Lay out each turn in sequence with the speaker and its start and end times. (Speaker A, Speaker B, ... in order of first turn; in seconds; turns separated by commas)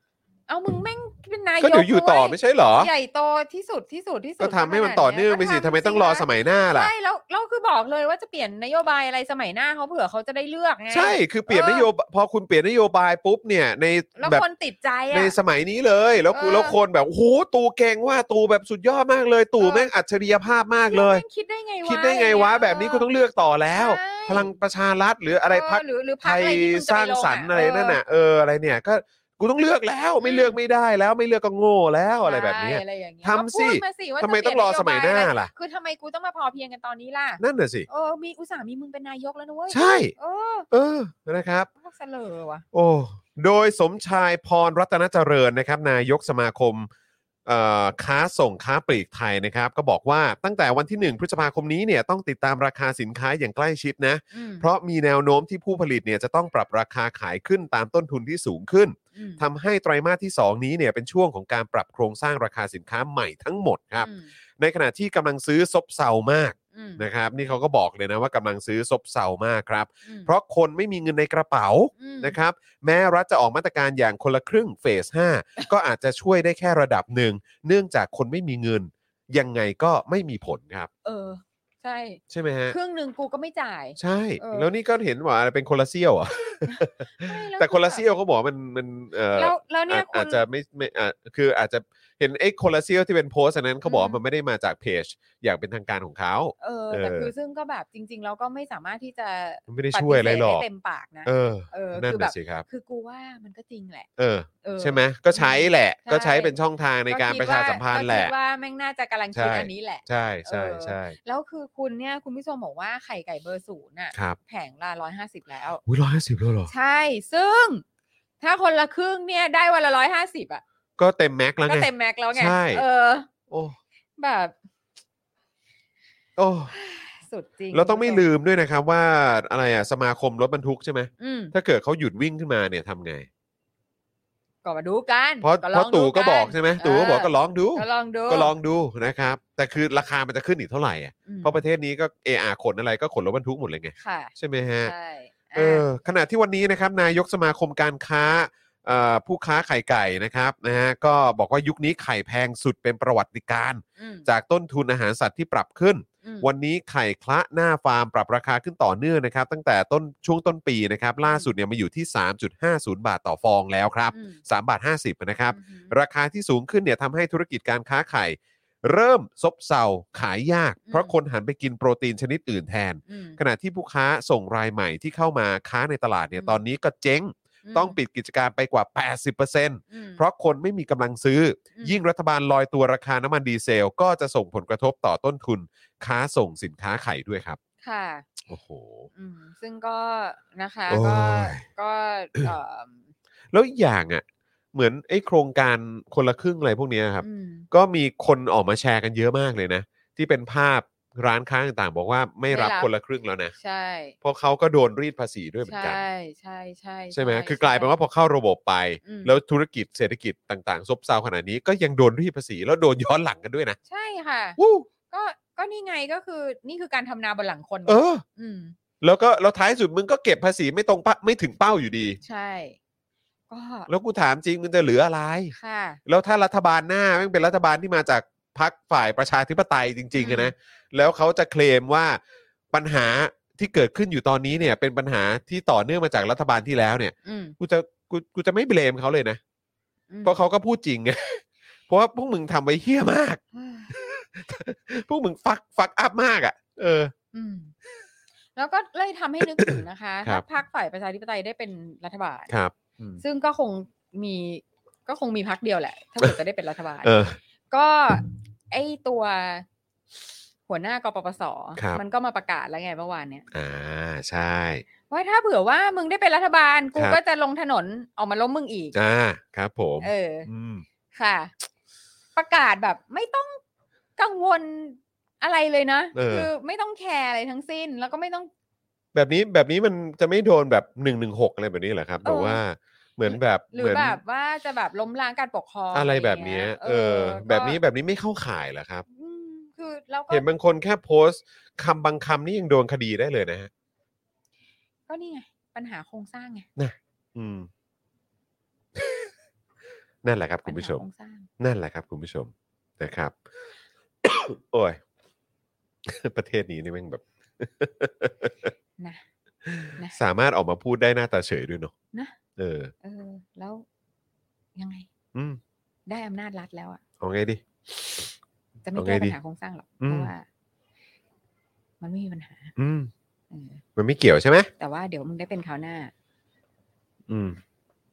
Speaker A: 0.5-11.9, Speaker B: 1.6-2.9, Speaker B: 4.4-6.9, Speaker B: 10.9-14.4, Speaker A: 14.2-15.4, Speaker B: 15.1-21.2, Speaker A: 16.3-16.8, Speaker A: 19.6-19.9, Speaker A: 20.9-23.1, Speaker B: 21.9-35.5, Speaker A: 23.7-24.5, Speaker A: 25.5-28.0, Speaker A: 30.2-30.6, Speaker A: 32.2-40.7, Speaker B: 37.4-37.9, Speaker B: 39.7-40.1, Speaker B: 40.7-41.7, Speaker A: 41.8-42.6, Speaker B: 42.7-46.9, Speaker B: 47.5-80.9, Speaker A: 54.3-54.7, Speaker A: 59.1-59.4, Speaker A: 64.0-64.3, Speaker A: 66.7-67.0, Speaker A: 70.1-70.3, Speaker A: 72.0-72.4, Speaker A: 81.0-84.7, Speaker B: 82.3-82.8, Speaker B: 84.0-97.3, Speaker A: 86.6-88.1, Speaker A: 89.3-90.4, Speaker A: 93.8-94.2, Speaker A: 96.6-104.1, Speaker B: 99.7-100.7, Speaker B: 101.2-102.7, Speaker B: 104.2-108.3, Speaker A: 104.6-106.5, Speaker A: 107.1-115.8, Speaker B: 109.3-111.2, Speaker B: 114.1-114.4, Speaker B: 115.9-116.7, Speaker A: 116.7-117.8, Speaker A: 118.4-120.6, Speaker B: 121.0-122.8, Speaker A: 121.7-123.3, Speaker B: 123.5-123.8, Speaker A: 124.2-124.5, Speaker B: 126.4-126.7, Speaker A: 126.7-128.3, Speaker B: 127.7-133.3, Speaker A: 131.2-131.5, Speaker A: 134.6-138.5, Speaker B: 135.4-144.9, Speaker A: 141.3-141.6, Speaker A: 144.0-145.8, Speaker B: 145.6-187.6, Speaker A: 154.0-154.3, Speaker A: 164.1-164.4, Speaker A: 165.5-165.9, Speaker A: 170.9-171.1, Speaker A: 173.1-173.4, Speaker A: 177.7-178.0, Speaker A: 179.9-180.2, Speaker A: 187.8-188.3, Speaker B: 188.4-189.1, Speaker A: 189.2-193.0, Speaker B: 190.9-191.6, Speaker B: 193.5-203.5, Speaker A: 197.2-197.7, Speaker A: 202.5-202.9, Speaker A: 203.6-204.2, Speaker B: 204.2-206.0, Speaker A: 205.7-208.0, Speaker B: 207.1-213.8, Speaker A: 209.0-209.3, Speaker A: 213.9-218.8, Speaker B: 214.6-214.9, Speaker B: 217.9-218.2, Speaker B: 219.0-222.2, Speaker A: 222.2-222.8, Speaker A: 223.5-223.9, Speaker B: 223.9-225.6, Speaker A: 225.5-226.0, Speaker B: 226.1-232.2, Speaker A: 230.2-230.5, Speaker B: 232.7-239.4, Speaker A: 237.2-237.6, Speaker A: 240.1-240.4, Speaker B: 240.2-247.1, Speaker A: 243.5-244.0, Speaker A: 247.3-247.7, Speaker A: 248.6-252.5, Speaker B: 249.5-250.4, Speaker B: 252.5-253.2, Speaker A: 253.2-257.1, Speaker B: 257.0-257.4, Speaker A: 257.7-259.6, Speaker A: 260.7-263.4, Speaker B: 263.5-264.9, Speaker A: 265.1-268.9, Speaker B: 268.9-270.9, Speaker A: 270.0-270.5, Speaker A: 271.1-271.5, Speaker A: 272.4-273.6, Speaker A: 274.2-278.5, Speaker B: 276.1-276.5, Speaker B: 279.1-284.2, Speaker A: 282.2-282.6, Speaker A: 283.3-287.8, Speaker B: 285.9-289.1, Speaker A: 289.1-290.4, Speaker B: 290.3-293.7, Speaker A: 295.1-296.7, Speaker B: 296.8-297.7, Speaker B: 299.0-299.3, Speaker B: 300.2-301.0, Speaker A: 300.7-301.5, Speaker B: 301.6-303.4, Speaker B: 304.2-305.0, Speaker B: 306.1-308.7, Speaker B: 309.7-311.9, Speaker A: 309.8-310.2, Speaker B: 312.6-312.9, Speaker A: 313.0-313.9, Speaker A: 314.8-315.1, Speaker B: 315.3-315.6, Speaker A: 316.1-317.0, Speaker B: 317.2-318.3, Speaker A: 318.9-320.4, Speaker B: 318.9-319.4, Speaker B: 320.0-320.3, Speaker A: 322.0-322.7, Speaker B: 322.8-323.1, Speaker A: 323.5-323.8, Speaker B: 324.0-324.7, Speaker A: 324.8-326.1, Speaker B: 327.3-327.6